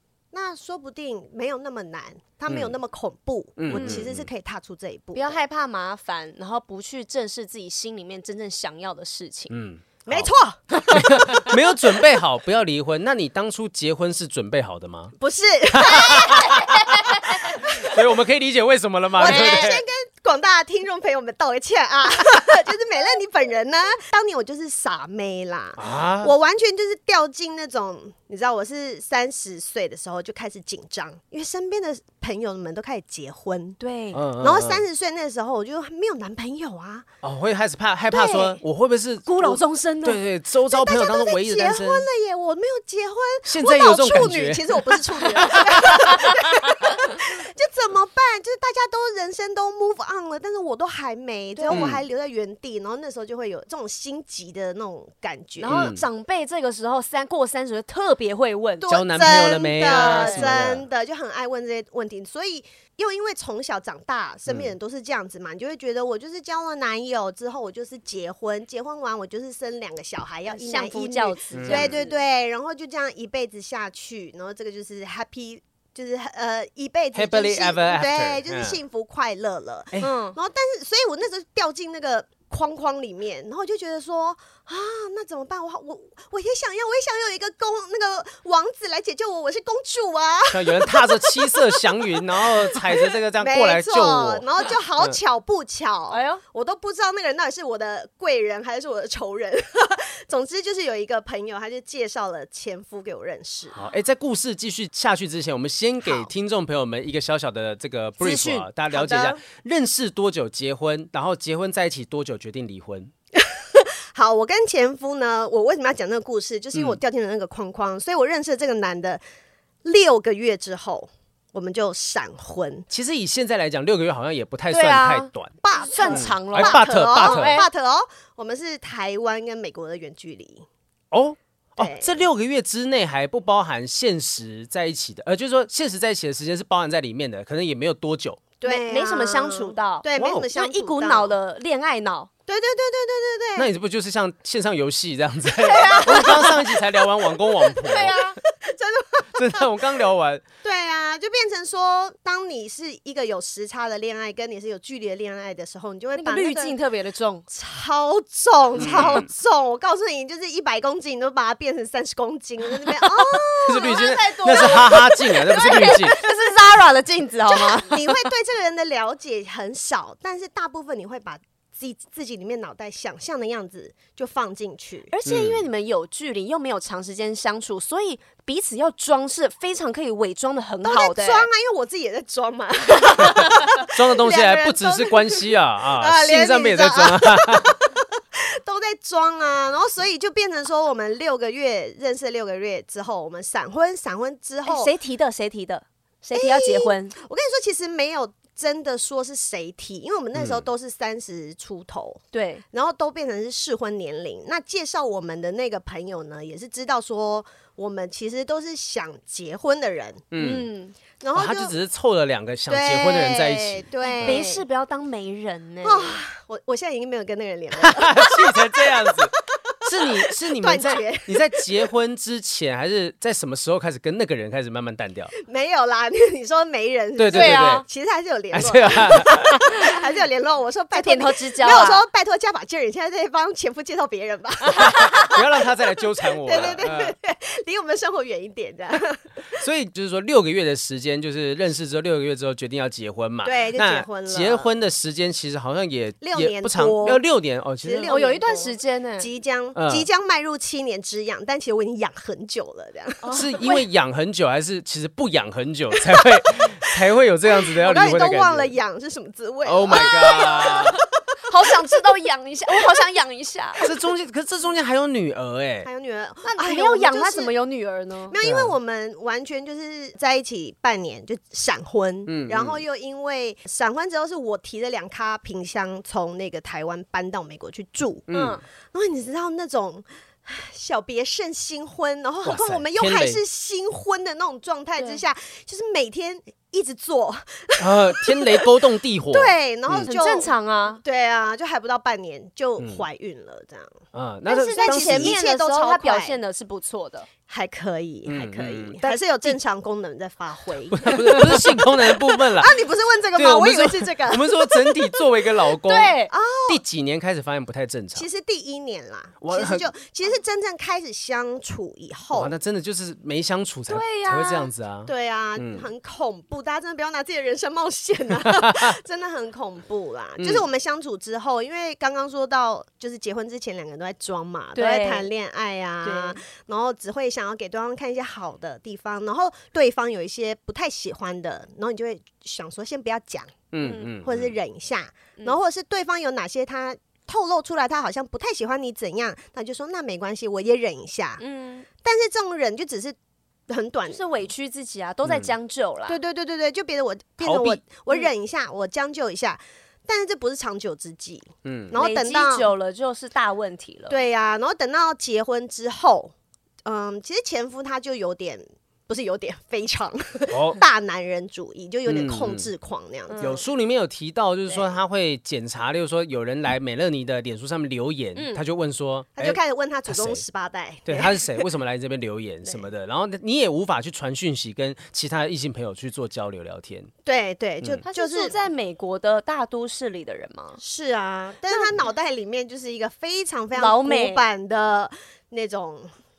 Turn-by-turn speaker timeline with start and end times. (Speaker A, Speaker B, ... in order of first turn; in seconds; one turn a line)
Speaker A: 0.3-5.4
Speaker B: 2.5-2.7
Speaker B: 3.6-4.3
Speaker C: 3.7-4.1
Speaker C: 5.2-9.5
Speaker B: 9.5-10.3
Speaker A: 10.1-11.4
Speaker C: 10.8-11.4
Speaker B: 10.9-15.1
Speaker A: 15.2-16.6
Speaker B: 15.7-19.8
Speaker C: 16.1-17.3
Speaker A: 17.5-18.0
Speaker A: 19.2-33.8
Speaker C: 19.2-19.7
Speaker B: 25.8-26.3
Speaker C: 33.8-34.2
Speaker B: 34.1-34.8
Speaker A: 34.4-37.1
Speaker B: 37.2-42.1
Speaker A: 38.1-38.6
Speaker C: 39.3-40.2
Speaker A: 40.7-55.9
Speaker B: 43.5-44.8
Speaker B: 45.4-46.2
Speaker C: 45.4-46.6
Speaker C: 51.6-51.9
Speaker B: 51.7-52.0
Speaker C: 55.6-60.5
Speaker B: 55.7-56.0
Speaker A: 58.8-103.8
Speaker B: 58.9-60.8
Speaker C: 70.5-72.2
Speaker B: 71.5-72.0
Speaker B: 77.2-78.8
Speaker C: 80.0-80.4
Speaker B: 90.5-94.5
Speaker C: 96.1-96.4
Speaker B: 103.7-113.1
Speaker A: 106.0-106.3
Speaker C: 108.2-108.7
Speaker A: 108.9-109.4
Speaker A: 113.4-119.2
Speaker B: 116.7-117.0
Speaker A: 119.8-122.9
Speaker B: 122.9-125.5
Speaker C: 124.7-127.7
Speaker A: 125.6-130.7
Speaker B: 126.1-127.6
Speaker B: 131.1-138.5
Speaker A: 131.8-132.2
Speaker A: 138.6-141.3
Speaker C: 138.6-142.3
Speaker B: 140.2-140.5
Speaker A: 142.5-143.7
Speaker B: 143.6-148.3
Speaker A: 145.6-146.8
Speaker C: 145.8-146.6
Speaker C: 147.8-148.4
Speaker A: 148.5-149.7
Speaker B: 149.3-150.4
Speaker A: 150.6-156.8
Speaker C: 156.2-157.4
Speaker A: 157.5-165.6
Speaker B: 158.8-159.3
Speaker C: 163.6-168.3
Speaker B: 163.7-166.2
Speaker A: 167.5-175.1
Speaker C: 175.1-181.5
Speaker B: 175.2-175.6
Speaker A: 180.8-194.9
Speaker B: 183.9-187.7
Speaker C: 194.7-197.1
Speaker A: 196.3-202.2
Speaker B: 200.3-200.6
Speaker C: 202.3-202.6
Speaker A: 202.7-210.2
Speaker B: 210.3-210.7
Speaker C: 210.4-210.9
Speaker A: 211.2-211.7
Speaker B: 211.3-214.4
Speaker A: 212.7-214.6
Speaker C: 214.1-216.2
Speaker A: 215.8-221.7
Speaker B: 217.8-219.3
Speaker B: 219.8-225.3
Speaker A: 225.4-235.4
Speaker B: 227.2-227.8
Speaker C: 227.3-227.8
Speaker B: 228.5-229.6
Speaker C: 230.9-232.0
Speaker C: 234.7-235.3
Speaker B: 234.8-237.1
Speaker A: 236.4-239.6
Speaker B: 239.6-248.1
Speaker A: 243.4-244.7
Speaker A: 246.2-247.2
Speaker A: 247.8-253.7
Speaker C: 248.1-249.3
Speaker B: 249.8-250.1
Speaker C: 253.2-253.8
Speaker B: 253.3-258.8
Speaker A: 257.5-261.0
Speaker B: 259.6-261.0
Speaker C: 259.9-263.9
Speaker B: 263.9-265.9
Speaker A: 265.8-267.5
Speaker C: 266.5-268.4
Speaker A: 268.3-278.3
Speaker B: 268.4-268.7
Speaker B: 272.3-272.8
Speaker B: 278.3-278.6
Speaker C: 278.3-278.6
Speaker A: 278.9-288.7
Speaker B: 282.4-283.4
Speaker C: 285.0-285.2
Speaker B: 287.8-290.1
Speaker A: 289.3-290.5
Speaker C: 290.0-291.0
Speaker A: 291.0-294.0
Speaker B: 294.1-295.4
Speaker C: 294.5-297.3
Speaker A: 294.5-296.4
Speaker A: 297.5-305.2
Speaker B: 298.3-299.0
Speaker C: 299.0-299.6
Speaker B: 300.9-302.8
Speaker B: 303.4-308.3
Speaker C: 305.9-306.3
Speaker A: 306.3-306.8
Speaker A: 308.1-312.5
Speaker B: 309.4-309.9
Speaker B: 312.4-315.9
Speaker C: 313.9-314.7
Speaker A: 315.1-333.6
Speaker B: 318.4-318.9
Speaker C: 324.8-325.3
Speaker C: 326.0-326.4
Speaker B: 333.7-334.5
Speaker C: 333.8-334.1
Speaker A: 334.2-341.4
Speaker C: 341.4-341.9
Speaker A: 342.0-343.2
Speaker A: 343.7-344.2
Speaker C: 344.1-346.2
Speaker B: 345.3-345.5
Speaker A: 346.1-352.7
Speaker B: 347.4-347.8
Speaker B: 351.6-351.9
Speaker C: 351.9-354.2
Speaker A: 354.1-356.3
Speaker A: 356.9-363.6
Speaker B: 360.5-360.8
Speaker B: 362.1-362.7
Speaker C: 363.3-363.6
Speaker B: 363.4-370.4
Speaker C: 368.4-368.6
Speaker A: 369.4-371.7
Speaker B: 371.1-377.1
Speaker A: 377.2-378.6
Speaker C: 378.1-380.8
Speaker A: 380.8-386.1
Speaker C: 381.7-382.0
Speaker C: 383.7-384.5